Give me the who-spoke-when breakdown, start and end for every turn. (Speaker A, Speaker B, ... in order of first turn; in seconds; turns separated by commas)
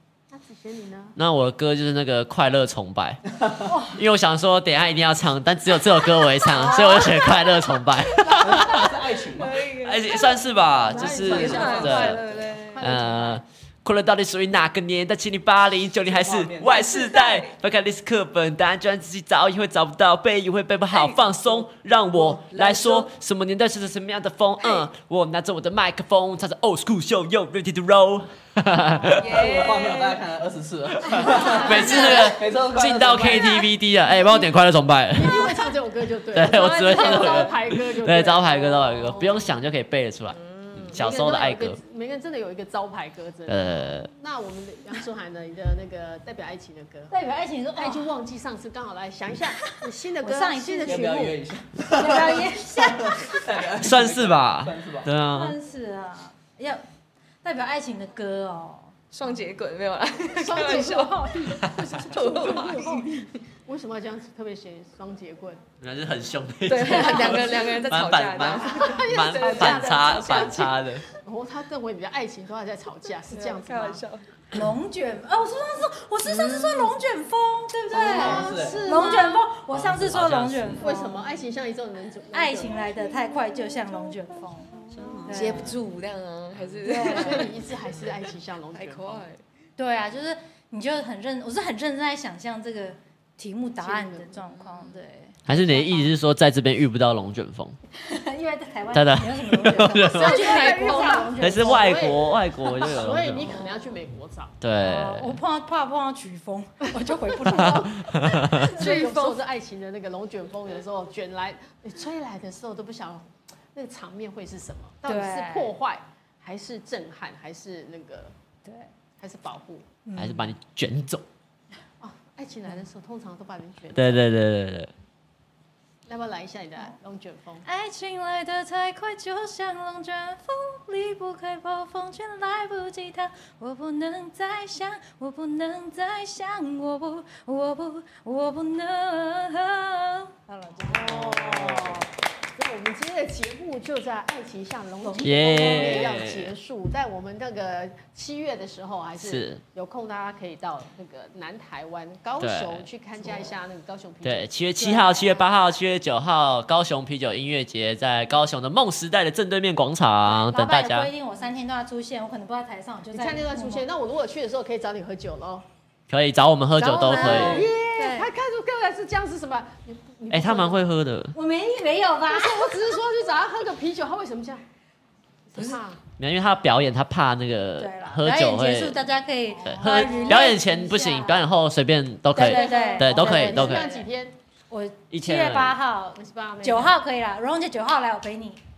Speaker A: 0.3-1.2, Speaker B: 1.2-8.9, Speaker C: 3.4-3.8, Speaker D: 3.7-4.0, Speaker E: 6.5-7.2, Speaker D: 6.6-7.3, Speaker E: 8.0-8.8, Speaker C: 8.4-9.7, Speaker E: 9.3-10.4, Speaker B: 9.8-12.2, Speaker A: 10.9-13.4, Speaker C: 10.9-12.4, Speaker E: 11.0-12.9, Speaker B: 12.8-29.3, Speaker C: 16.1-16.9, Speaker E: 16.8-17.5, Speaker E: 20.9-21.7, Speaker E: 22.2-23.1, Speaker E: 29.1-30.2, Speaker C: 29.2-33.6, Speaker B: 31.1-35.6, Speaker A: 31.3-32.3, Speaker D: 31.4-32.2, Speaker E: 31.7-32.1, Speaker A: 35.1-39.5, Speaker B: 36.3-41.8, Speaker E: 36.5-37.6, Speaker E: 40.3-41.0, Speaker A: 40.9-47.1, Speaker B: 43.5-44.1, Speaker D: 47.1-48.1, Speaker A: 47.8-51.1, Speaker D: 50.2-53.6, Speaker C: 50.9-55.1, Speaker B: 53.8-55.6, Speaker D: 55.3-56.8, Speaker D: 57.4-59.0, Speaker E: 59.1-63.2, Speaker D: 60.4-63.3, Speaker A: 61.6-63.0, Speaker A: 63.7-65.6, Speaker B: 65.8-71.1, Speaker E: 66.7-70.7, Speaker A: 66.8-67.8, Speaker A: 68.6-74.0, Speaker E: 73.3-74.3, Speaker D: 74.5-81.3, Speaker E: 76.2-77.0, Speaker A: 77.9-79.5, Speaker C: 78.0-78.9, Speaker B: 79.7-80.8, Speaker A: 80.8-83.1, Speaker D: 82.3-85.8, Speaker E: 83.7-84.1, Speaker B: 84.9-85.6, Speaker E: 85.0-87.5, Speaker D: 86.8-87.5, Speaker A: 86.9-89.3, Speaker E: 88.7-89.4, Speaker D: 89.8-96.1, Speaker A: 93.8-94.9, Speaker B: 95.5-97.8, Speaker D: 98.0-102.0, Speaker B: 98.9-100.4, Speaker A: 100.0-104.5, Speaker E: 100.2-101.3, Speaker B: 101.4-103.5, Speaker D: 103.4-103.8, Speaker B: 104.6-105.4, Speaker D: 104.8-109.4, Speaker A: 106.9-107.8, Speaker B: 107.6-108.7, Speaker A: 108.5-118.3, Speaker E: 108.8-109.3, Speaker D: 115.1-115.7, Speaker D: 118.7-118.9, Speaker A: 119.2-119.9, Speaker D: 120.1-120.5, Speaker B: 120.2-121.2, Speaker A: 122.0-124.2, Speaker B: 124.0-124.9, Speaker A: 126.1-127.7, Speaker D: 127.7-142.1, Speaker A: 140.8-154.5, Speaker B: 141.1-141.6, Speaker D: 145.0-146.2, Speaker B: 145.2-146.5, Speaker B: 149.2-149.6, Speaker B: 152.4-152.9, Speaker B: 154.2-161.1, Speaker D: 154.8-155.4, Speaker D: 160.2-163.8, Speaker A: 163.1-165.7, Speaker B: 166.1-167.7, Speaker E: 166.8-168.3, Speaker A: 167.1-170.8, Speaker C: 167.2-167.6, Speaker B: 170.3-171.3, Speaker D: 171.3-172.8, Speaker A: 172.3-174.6, Speaker A: 175.5-176.0, Speaker B: 176.2-179.0, Speaker D: 177.8-181.5, Speaker A: 179.6-180.5, Speaker B: 179.6-183.8, Speaker D: 182.3-184.1, Speaker A: 182.4-184.4, Speaker D: 184.7-188.6, Speaker B: 185.1-185.8, Speaker A: 186.2-187.0